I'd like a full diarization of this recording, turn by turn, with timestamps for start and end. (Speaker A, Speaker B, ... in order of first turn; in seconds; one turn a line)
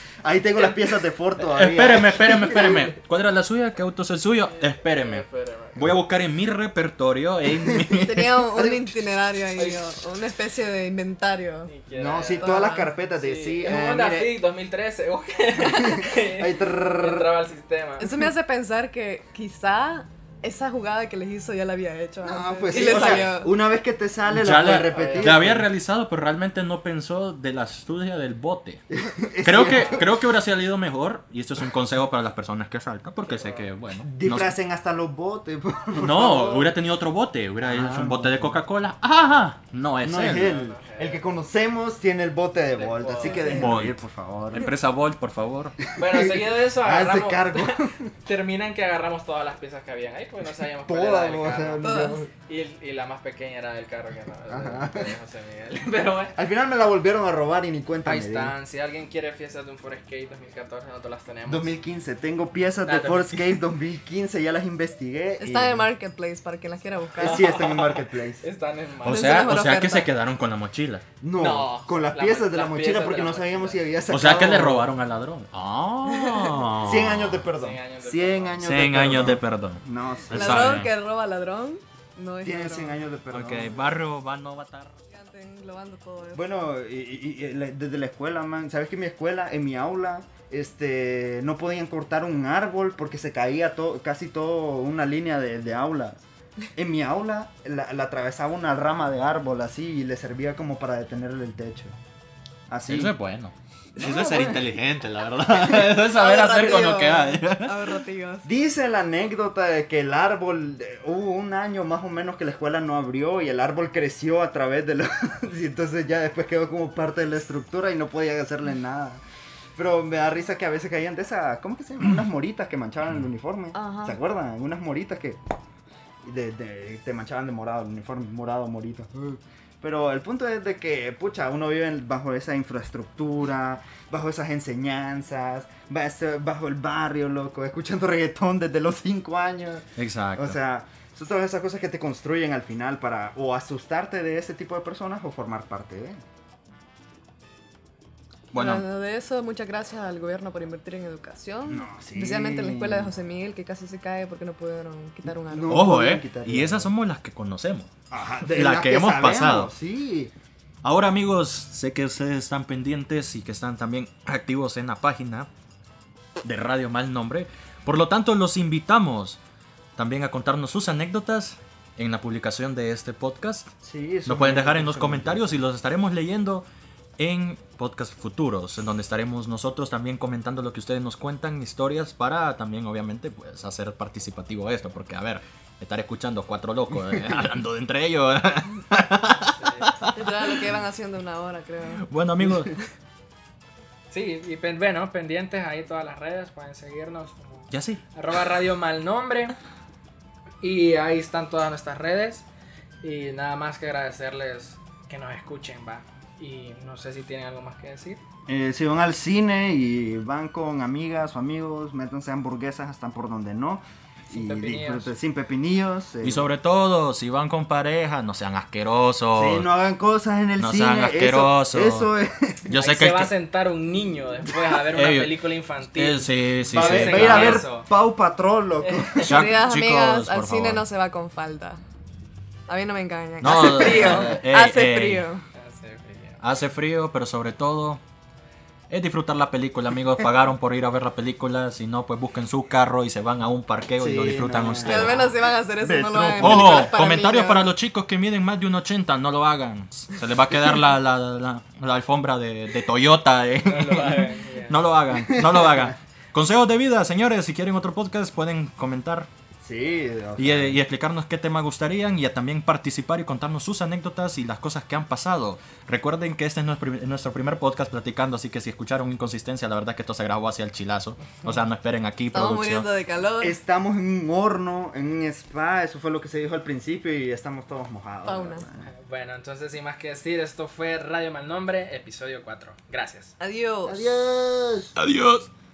Speaker A: 0.2-2.9
Speaker B: 1.4-5.2
Speaker C: 4.5-5.8
Speaker B: 5.8-8.4
Speaker D: 8.0-11.7
Speaker A: 8.6-8.8
Speaker C: 11.7-18.2
Speaker A: 11.9-14.3
Speaker D: 12.4-12.9
Speaker A: 15.6-17.3
Speaker D: 18.0-23.5
Speaker A: 22.2-25.7
Speaker C: 22.7-23.4
Speaker B: 24.3-28.8
Speaker C: 24.9-25.5
Speaker A: 28.9-30.1
Speaker B: 29.4-34.5
Speaker C: 29.6-30.0
Speaker C: 33.2-33.7
Speaker A: 34.0-36.7
Speaker B: 36.0-40.6
Speaker A: 37.6-38.6
Speaker A: 40.0-44.6
Speaker C: 40.3-41.2
Speaker C: 42.7-43.6
Speaker D: 43.2-43.7
Speaker B: 43.5-44.0
Speaker B: 44.5-45.8
Speaker C: 46.0-51.9
Speaker A: 46.0-48.1
Speaker A: 50.9-52.3
Speaker D: 51.8-52.2
Speaker C: 52.5-56.4
Speaker A: 54.5-55.1
Speaker A: 56.4-58.5
Speaker C: 58.0-61.7
Speaker A: 61.5-65.9
Speaker C: 62.9-63.6
Speaker D: 65.4-67.5
Speaker A: 67.2-68.4
Speaker C: 67.2-69.5
Speaker B: 69.0-71.0
Speaker D: 69.0-70.1
Speaker A: 71.2-74.9
Speaker C: 71.4-73.9
Speaker B: 74.1-77.5
Speaker D: 76.1-76.5
Speaker A: 76.8-80.9
Speaker C: 77.5-78.8
Speaker B: 78.6-80.9
Speaker D: 80.3-83.1
Speaker A: 82.4-83.9
Speaker B: 83.3-85.0
Speaker D: 85.1-86.7
Speaker A: 86.3-96.2
Speaker A: 96.8-102.0
Speaker A: 102.7-103.1
Speaker B: 102.9-107.9
Speaker A: 104.0-104.6
Speaker D: 106.1-108.5
Speaker A: 108.5-119.2
Speaker A: 119.8-125.4
Speaker D: 123.7-124.2
Speaker A: 126.2-146.2
Speaker B: 140.0-140.6
Speaker B: 148.5-148.8
Speaker D: 148.5-155.8
Speaker A: 151.7-153.1
Speaker A: 155.2-156.9
Speaker B: 155.7-157.9
Speaker A: 158.1-160.3
Speaker B: 158.5-159.7
Speaker B: 160.8-165.5
Speaker B: 166.4-169.4
Speaker B: 170.0-173.7
Speaker A: 173.8-175.6
Speaker B: 174.3-176.7
Speaker B: 177.2-190.6
Speaker C: 189.5-189.9
Speaker D: 190.1-192.1
Speaker B: 192.0-192.8
Speaker C: 194.1-199.6
Speaker B: 197.7-198.0
Speaker C: 200.6-202.4
Speaker C: 203.0-208.2
Speaker A: 208.5-216.5
Speaker C: 214.3-215.1
Speaker B: 216.2-219.7
Speaker A: 219.3-222.8
Speaker B: 220.6-222.1
Speaker B: 222.7-223.3
Speaker C: 222.7-227.9
Speaker B: 224.9-225.3
Speaker B: 225.9-227.7
Speaker A: 226.7-229.4
Speaker C: 228.8-229.3
Speaker D: 229.3-231.8
Speaker B: 229.3-230.8
Speaker D: 232.7-235.4
Speaker B: 233.4-235.3
Speaker A: 233.9-234.2
Speaker C: 235.6-236.4
Speaker B: 236.4-238.0
Speaker B: 238.9-245.3
Speaker A: 244.0-245.2
Speaker D: 244.8-247.7
Speaker B: 245.8-259.3
Speaker A: 246.3-246.8
Speaker C: 253.7-254.8
Speaker A: 255.1-255.9
Speaker A: 259.6-260.8
Speaker B: 260.4-272.9
Speaker D: 272.3-273.6
Speaker A: 273.4-278.9
Speaker D: 278.3-278.6
Speaker C: 279.0-283.3
Speaker D: 283.4-284.1
Speaker A: 283.9-285.0
Speaker B: 285.0-285.5